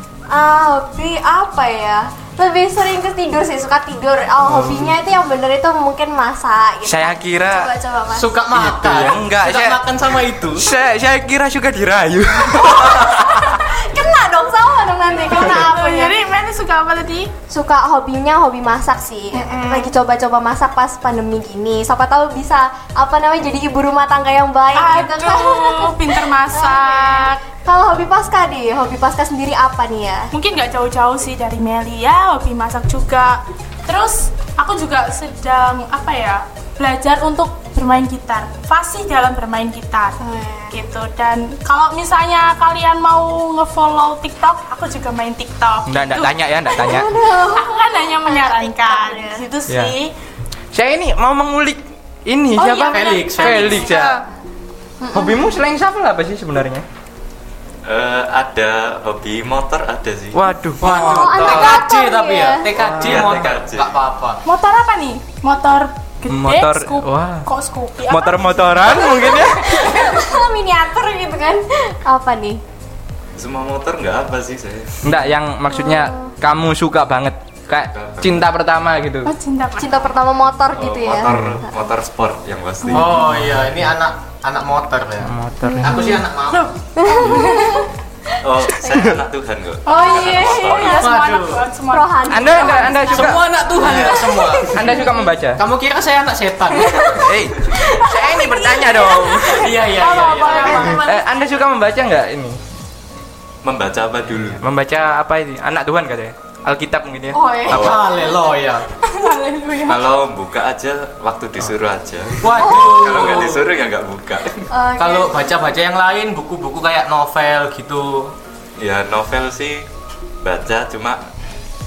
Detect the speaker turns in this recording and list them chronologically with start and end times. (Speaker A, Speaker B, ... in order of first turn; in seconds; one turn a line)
Speaker A: 0.3-8.3
Speaker B: 4.4-4.9
Speaker B: 6.8-7.7
Speaker C: 8.1-10.7
Speaker B: 8.5-9.8
Speaker B: 10.5-13.6
Speaker A: 12.5-16.2
Speaker D: 15.2-17.3
Speaker A: 17.5-30.3
Speaker D: 19.3-19.9
Speaker D: 24.7-27.4
Speaker D: 30.3-40.2
Speaker A: 40.2-40.8
Speaker D: 40.7-50.1
Speaker B: 45.9-47.1
Speaker A: 46.7-49.5
Speaker B: 50.7-54.2
Speaker D: 52.5-54.2
Speaker C: 52.9-53.8
Speaker A: 55.0-55.5
Speaker B: 55.1-56.8
Speaker E: 57.8-60.4
Speaker B: 60.3-61.8
Speaker C: 60.8-64.4
Speaker A: 60.8-62.7
Speaker B: 62.8-63.4
Speaker E: 63.0-63.9
Speaker D: 64.4-69.3
Speaker B: 66.3-67.5
Speaker B: 68.1-70.1
Speaker A: 68.9-72.6
Speaker E: 73.4-75.1
Speaker B: 75.0-79.3
Speaker A: 75.7-76.3
Speaker E: 77.9-78.5
Speaker D: 79.2-80.1
Speaker A: 79.8-81.7
Speaker E: 80.7-83.2
Speaker B: 81.3-81.6
Speaker C: 82.9-86.7
Speaker D: 82.9-83.3
Speaker B: 83.2-83.6
Speaker B: 85.2-86.1
Speaker A: 85.7-86.2
Speaker D: 85.8-87.9
Speaker A: 87.0-87.9
Speaker E: 88.4-91.1
Speaker B: 88.8-89.2
Speaker D: 89.8-94.0
Speaker A: 89.9-91.0
Speaker C: 91.0-91.7
Speaker A: 91.9-95.2
Speaker B: 92.3-94.1
Speaker C: 93.1-95.0
Speaker B: 94.6-95.6
Speaker C: 95.6-97.2
Speaker A: 96.7-97.2
Speaker B: 97.2-99.7
Speaker A: 97.8-101.6
Speaker D: 98.4-101.4
Speaker C: 99.5-100.9
Speaker B: 100.7-102.6
Speaker E: 103.6-104.6
Speaker B: 104.6-107.9
Speaker A: 107.3-108.1
Speaker E: 107.7-108.0
Speaker C: 107.7-108.8
Speaker D: 109.0-110.0
Speaker E: 109.8-114.7
Speaker C: 112.4-113.7
Speaker A: 112.6-113.2
Speaker A: 114.7-115.5
Speaker C: 115.0-118.3
Speaker E: 118.8-119.8
Speaker E: 120.4-121.2